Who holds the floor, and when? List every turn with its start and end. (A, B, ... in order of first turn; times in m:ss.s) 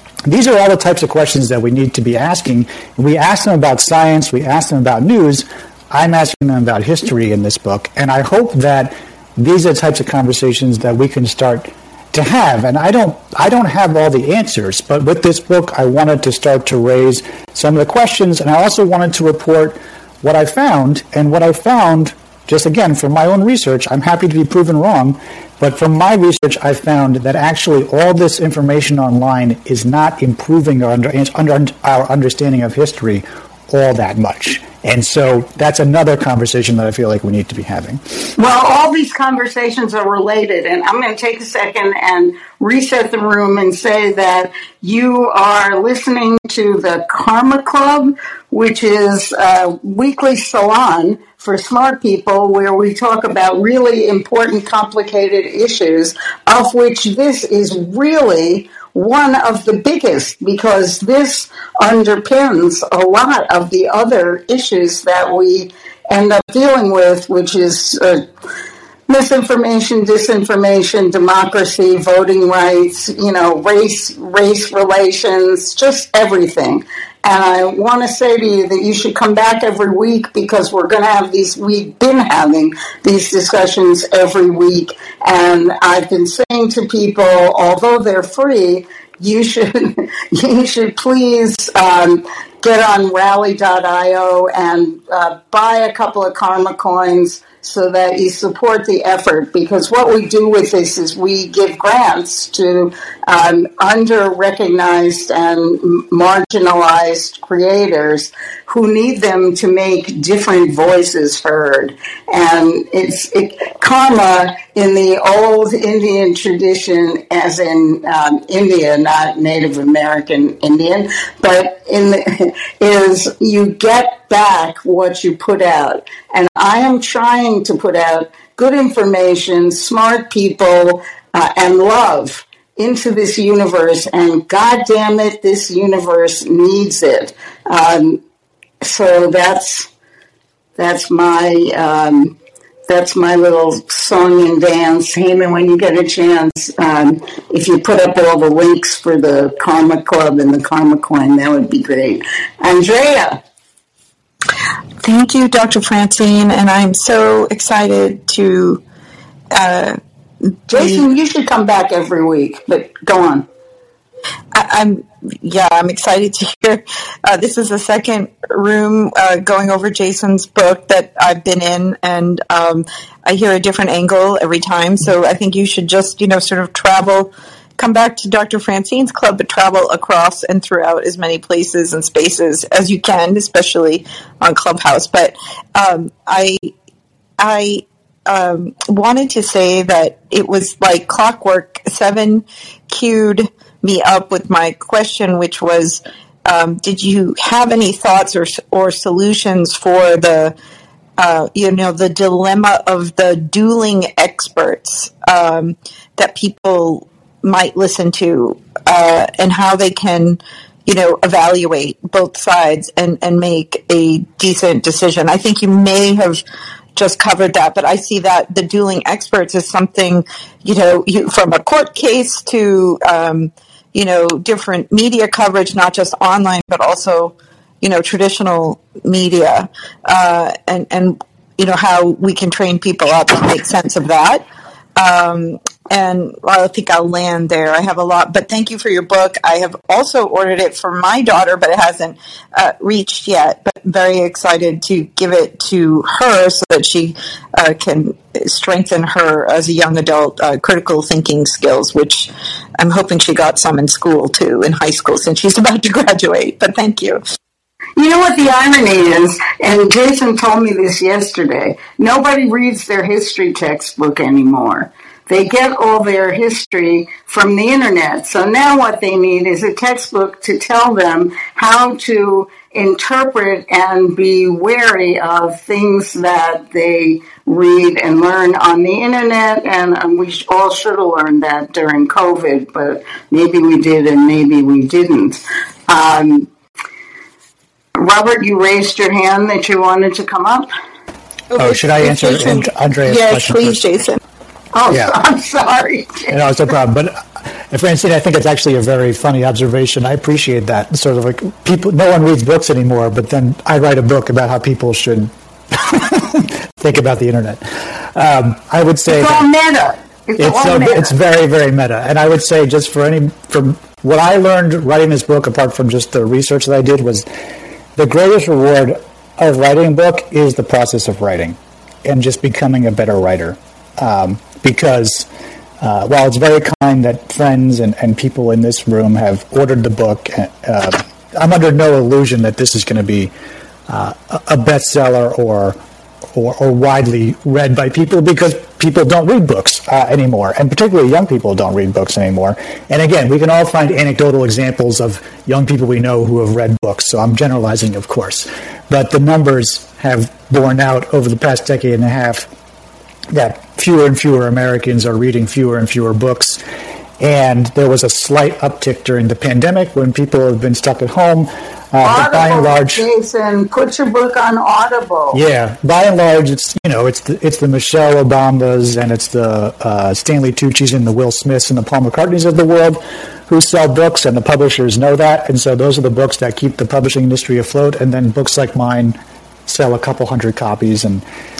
0:00.2-0:38.3 A
0:38.4-1:08.2 B
1:09.1-2:18.2 B
2:18.8-2:19.9 B
2:20.8-2:22.4 B
2:22.9-2:33.4 B
2:35.0-2:38.8 C
2:39.5-2:40.0 C
2:40.7-2:43.4 B
2:40.7-2:41.0 C
2:44.5-3:06.7 C
3:07.4-3:20.5 C
3:21.2-3:36.4 C
3:37.0-3:54.4 C
3:55.0-4:17.2 C
4:18.0-4:46.5 B
4:48.0-4:50.7 B
4:51.6-4:53.8 A
4:51.6-4:54.2 C
4:54.7-4:56.3 B
4:54.9-4:55.1 A
4:56.3-5:09.4 A
5:09.1-5:11.1 B
5:10.4-5:17.2 A
5:18.0-5:25.3 A
5:25.8-5:33.3 A
5:33.9-5:35.8 A
5:36.3-5:52.5 A
5:53.3-5:56.6 A
5:57.2-6:03.0 A
6:02.0-6:05.4 B
6:05.3-6:21.2 A